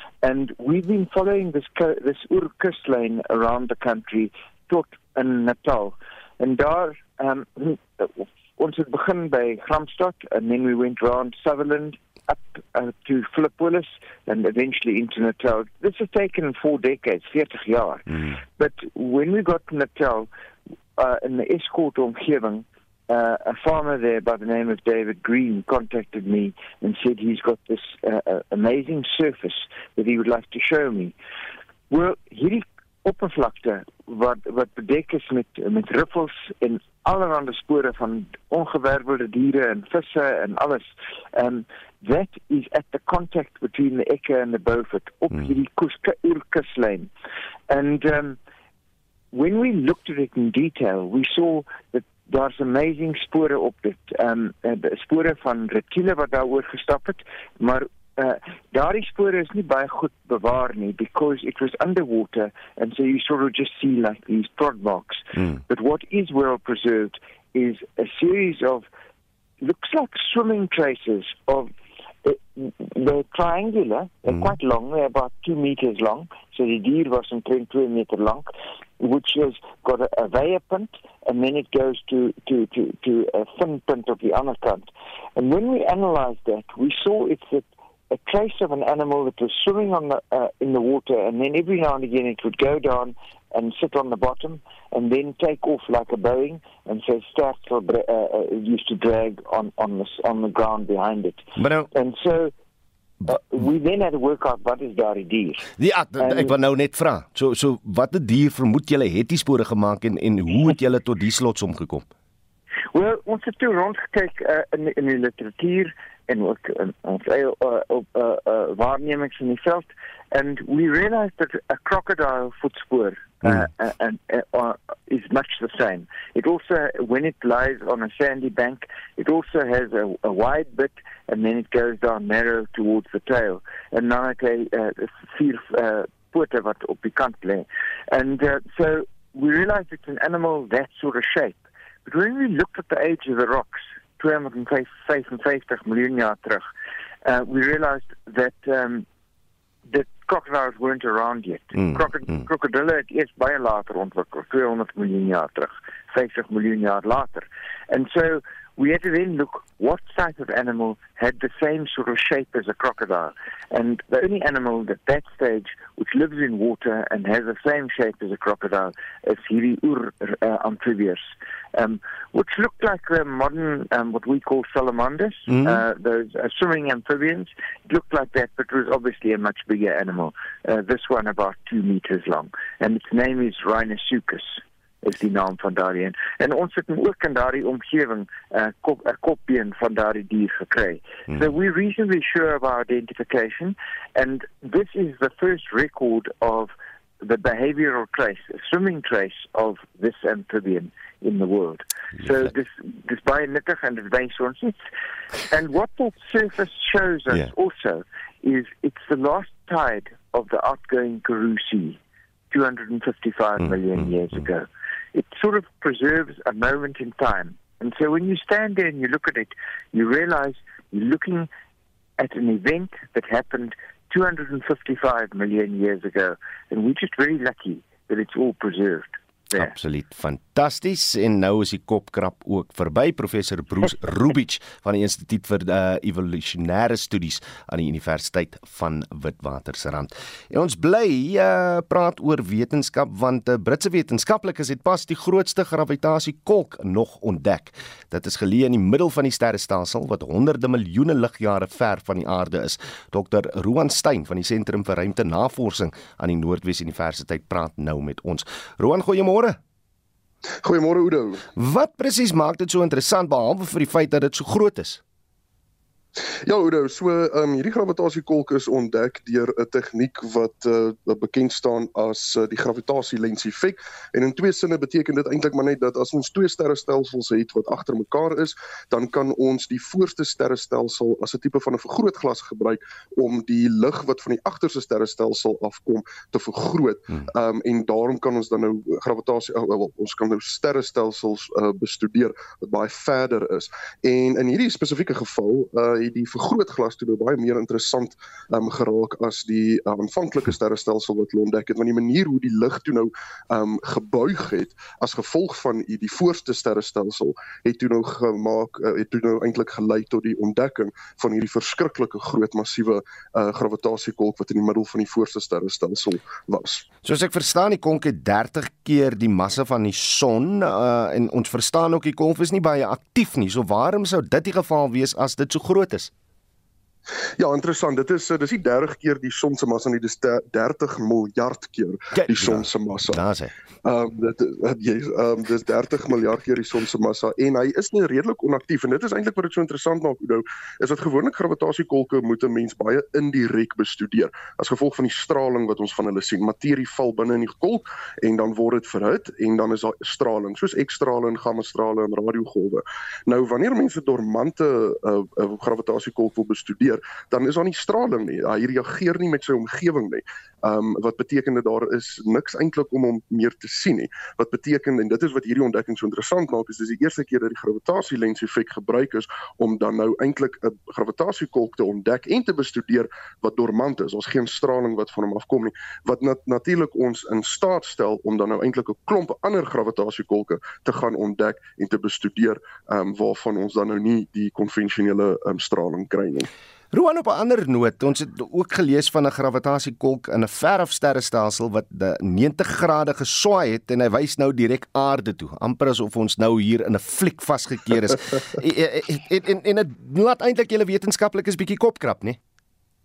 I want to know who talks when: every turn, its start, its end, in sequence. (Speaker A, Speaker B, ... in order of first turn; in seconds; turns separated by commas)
Speaker A: 0.2-18.1, Speaker A: 18.6-20.3, Speaker A: 21.0-31.1, Speaker A: 31.9-47.1, Speaker A: 47.7-48.4, Speaker A: 49.3-68.9, Speaker A: 69.6-71.7, Speaker A: 72.2-102.5, Speaker B: 74.3-74.6, Speaker B: 101.6-101.9, Speaker A: 103.3-105.7, Speaker B: 105.8-112.1, Speaker A: 106.2-106.5, Speaker A: 112.9-146.7, Speaker A: 147.2-149.1, Speaker A: 149.9-204.8, Speaker B: 151.8-152.1, Speaker B: 175.5-175.8, Speaker B: 191.3-191.5, Speaker A: 205.5-212.0, Speaker A: 212.5-221.5, Speaker B: 213.6-214.1, Speaker A: 222.2-229.7, Speaker B: 229.5-259.6, Speaker C: 260.6-261.4, Speaker B: 261.6-265.0, Speaker C: 266.4-316.9, Speaker B: 317.0-326.1, Speaker C: 327.4-333.2, Speaker B: 332.2-333.5, Speaker C: 333.9-386.5, Speaker B: 386.9-402.4